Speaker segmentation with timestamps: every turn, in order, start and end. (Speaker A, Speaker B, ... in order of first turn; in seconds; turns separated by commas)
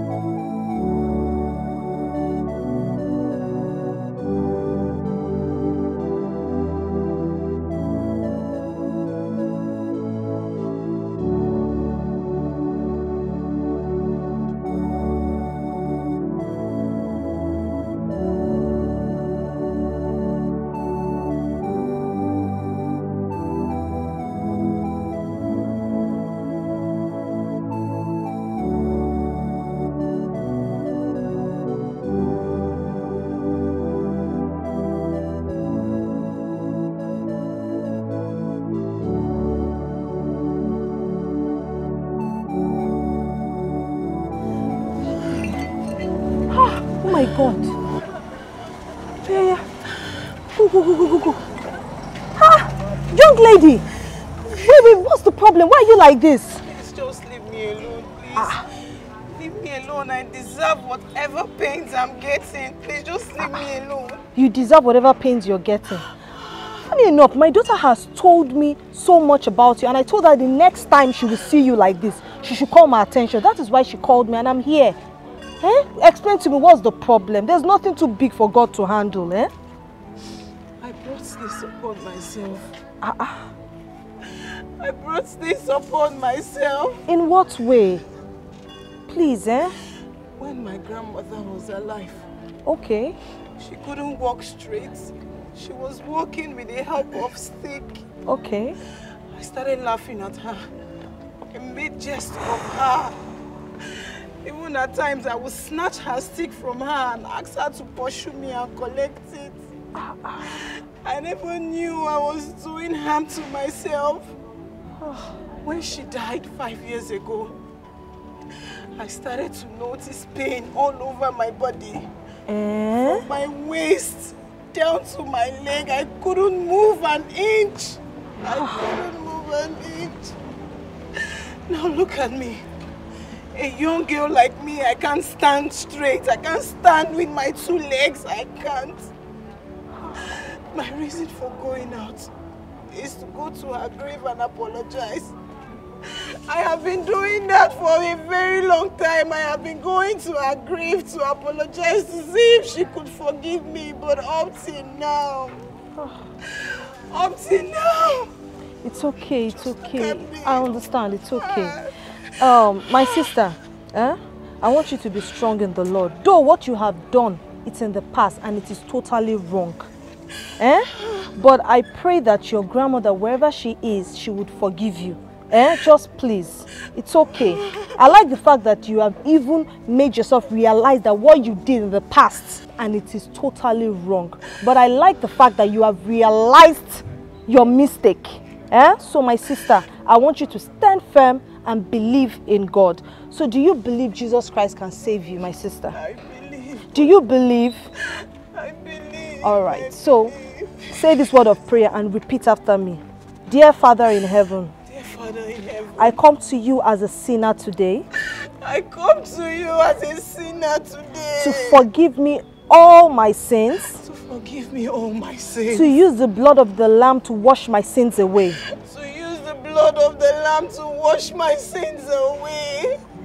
Speaker A: 46.5-47.7, Speaker A: 49.2-49.6, Speaker A: 50.5-51.4, Speaker A: 52.4-53.8, Speaker B: 54.5-55.0, Speaker A: 54.5-56.6, Speaker B: 56.6-58.6, Speaker A: 58.3-58.6, Speaker B: 59.3-64.2, Speaker A: 64.3-66.0, Speaker A: 66.8-75.0, Speaker A: 75.6-79.5, Speaker B: 80.8-82.7, Speaker A: 83.0-83.5, Speaker B: 84.2-87.1, Speaker A: 87.1-88.0, Speaker A: 89.1-89.8, Speaker B: 90.4-92.2, Speaker A: 92.7-93.2, Speaker B: 93.6-98.0, Speaker A: 98.2-98.8, Speaker B: 99.3-100.7, Speaker B: 101.5-109.6, Speaker A: 110.0-110.6, Speaker B: 110.4-114.3, Speaker A: 115.0-115.3, Speaker B: 115.6-117.6, Speaker B: 118.6-122.1, Speaker A: 122.5-123.2, Speaker B: 123.0-130.3, Speaker B: 131.1-132.7, Speaker B: 133.5-139.1, Speaker B: 140.1-142.3, Speaker B: 142.9-145.3, Speaker B: 146.0-155.6, Speaker B: 156.5-158.3, Speaker A: 158.8-161.8, Speaker B: 159.5-163.4, Speaker A: 162.4-169.9, Speaker A: 170.6-196.0, Speaker B: 195.9-197.1, Speaker A: 196.9-197.8, Speaker B: 198.1-201.3, Speaker A: 199.4-200.3, Speaker A: 200.9-204.7, Speaker B: 204.9-206.2, Speaker A: 206.0-208.0, Speaker B: 208.3-211.9, Speaker A: 211.4-214.0, Speaker B: 213.9-216.0, Speaker A: 215.7-218.6, Speaker B: 218.6-223.0